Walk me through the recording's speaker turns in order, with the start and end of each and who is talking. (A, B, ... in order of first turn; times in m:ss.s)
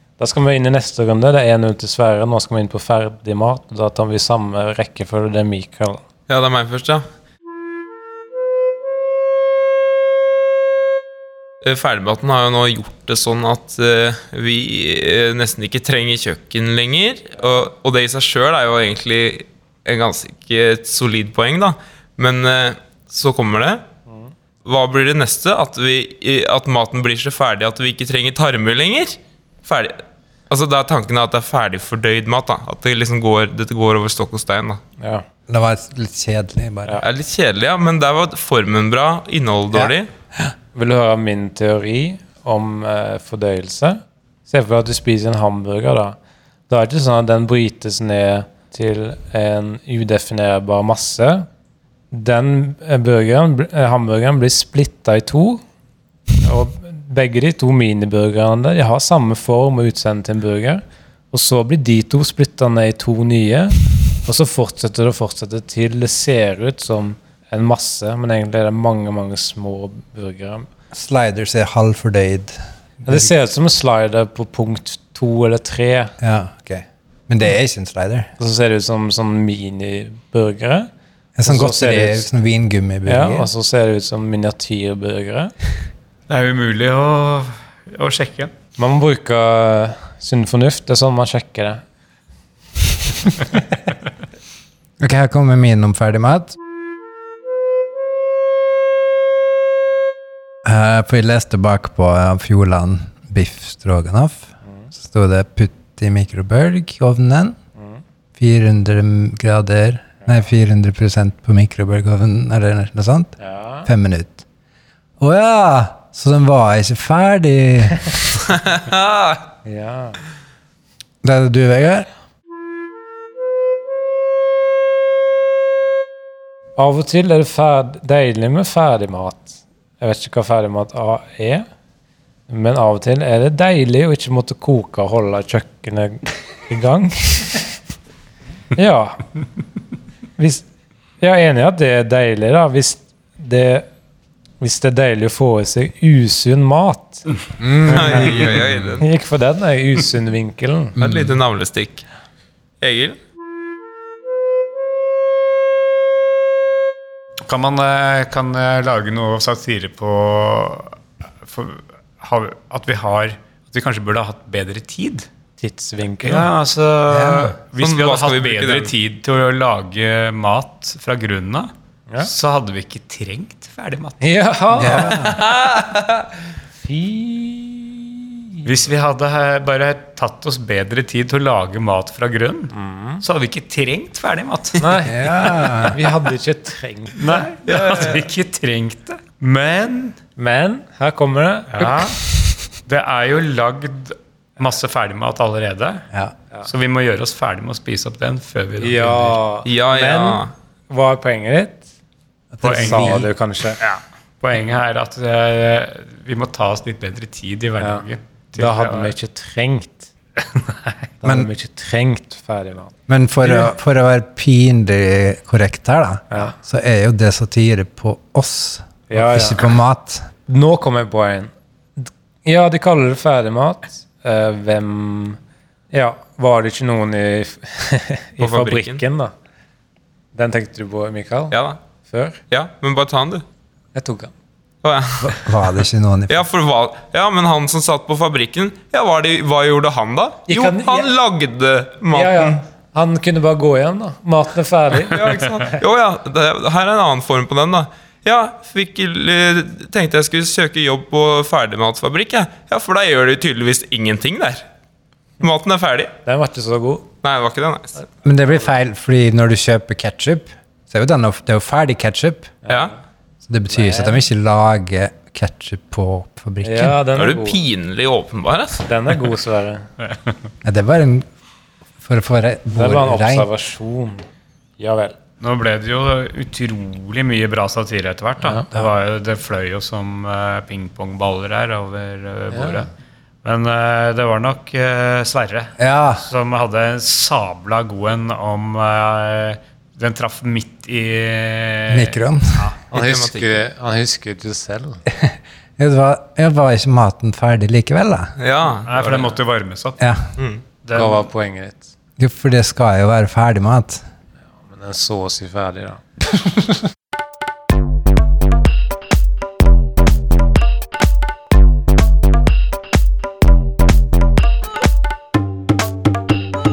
0:00.2-0:06.0 A
0:06.3-0:07.1 B
0:11.6-0:23.8 B
0:24.6-0:34.8 B
0:35.0-0:35.2 A
0:35.5-0:37.0 C
0:37.0-0:40.1 B
0:40.8-0:46.2 A
0:46.7-0:51.5 A
0:52.1-0:55.6 A
0:56.4-1:10.7 A
1:10.9-1:13.3 C
1:13.1-1:16.1 A
1:16.2-1:18.3 C
1:18.4-1:20.9 A
1:21.4-1:23.5 C
1:21.4-1:22.3 A
1:23.1-1:25.5 A
1:26.3-1:28.5 D
1:28.8-1:31.8 A
1:35.0-1:36.6 C
1:40.6-1:47.6 C
1:44.6-1:44.9 A
1:47.8-1:48.0 A
1:48.4-1:54.4 C
1:53.4-1:53.9 A
1:55.2-1:58.2 C
1:58.5-1:59.5 B
1:59.6-2:00.2 A
2:01.2-2:02.1 C
2:06.8-2:11.6 A
2:12.5-2:17.7 A
2:18.8-2:19.2 A
2:20.4-2:20.6 A
2:21.2-2:23.9 A
2:24.6-2:27.3 A
2:27.6-2:28.9 C
2:27.8-2:31.0 A
2:27.9-2:29.0 B
2:31.0-2:32.0 B
2:31.0-2:31.4 C
2:32.8-2:33.2 B
2:37.5-2:45.3 D
2:45.6-2:46.5 A
2:46.2-2:51.7 D
2:47.1-2:47.6 C
2:47.8-2:48.9 B
2:52.2-2:54.3 D
2:54.2-2:55.3 A
2:54.8-2:55.4 C
2:55.2-2:56.3 B
2:56.8-2:58.4 A
2:58.6-3:04.9 D
3:02.7-3:03.2 A
3:04.8-3:07.3 A
3:05.1-3:06.0 C
3:07.2-3:10.2 D
3:07.7-3:08.2 B
3:10.4-3:12.2 A
3:11.8-3:12.1 D
3:12.8-3:16.0 D
3:16.6-3:19.4 D
3:18.8-3:21.9 A
3:19.6-3:20.5 B
3:22.5-3:23.3 C
3:22.6-3:23.3 D
3:22.7-3:23.8 A
3:23.8-3:29.1 D
3:27.8-3:28.0 A
3:28.6-3:30.1 A
3:30.4-3:31.0 D
3:31.2-3:33.7 A
3:33.1-3:40.3 C
3:39.1-3:39.8 A
3:40.4-3:45.4 A
3:45.9-3:49.3 A
3:48.4-3:49.0 B
3:50.4-3:52.4 A
3:51.5-3:51.8 B
3:52.5-3:53.4 B
3:53.9-3:54.3 A
3:54.8-3:55.6 B
3:55.2-3:56.4 C
3:56.3-4:02.6 B
4:00.5-4:01.1 A
4:02.1-4:05.5 A
4:05.1-4:14.6 B
4:15.4-4:16.1 B
4:16.2-4:17.1 A
4:17.2-4:18.0 B
4:18.2-4:22.5 C
4:22.6-4:23.0 A
4:23.4-4:27.0 C
4:23.7-4:24.2 A
4:26.6-4:27.6 A
4:27.2-4:28.9 B
4:28.8-4:29.9 A
4:30.1-4:30.4 D
4:30.6-4:31.3 C
4:32.0-4:33.5 C
4:32.7-4:34.2 A
4:34.8-4:35.2 A
4:35.4-4:42.9 D
4:42.5-4:42.8 A
4:43.4-4:52.8 D
4:45.8-4:46.3 C
4:51.9-4:52.7 C
4:52.9-4:55.0 A
4:52.9-4:53.6 B
4:55.1-4:58.3 C
4:58.4-4:59.4 B
4:58.9-5:00.0 D
5:00.0-5:00.3 C
5:00.4-5:00.6 B
5:00.8-5:01.3 D
5:00.9-5:01.9 A
5:02.2-5:04.0 C
5:04.6-5:06.0 A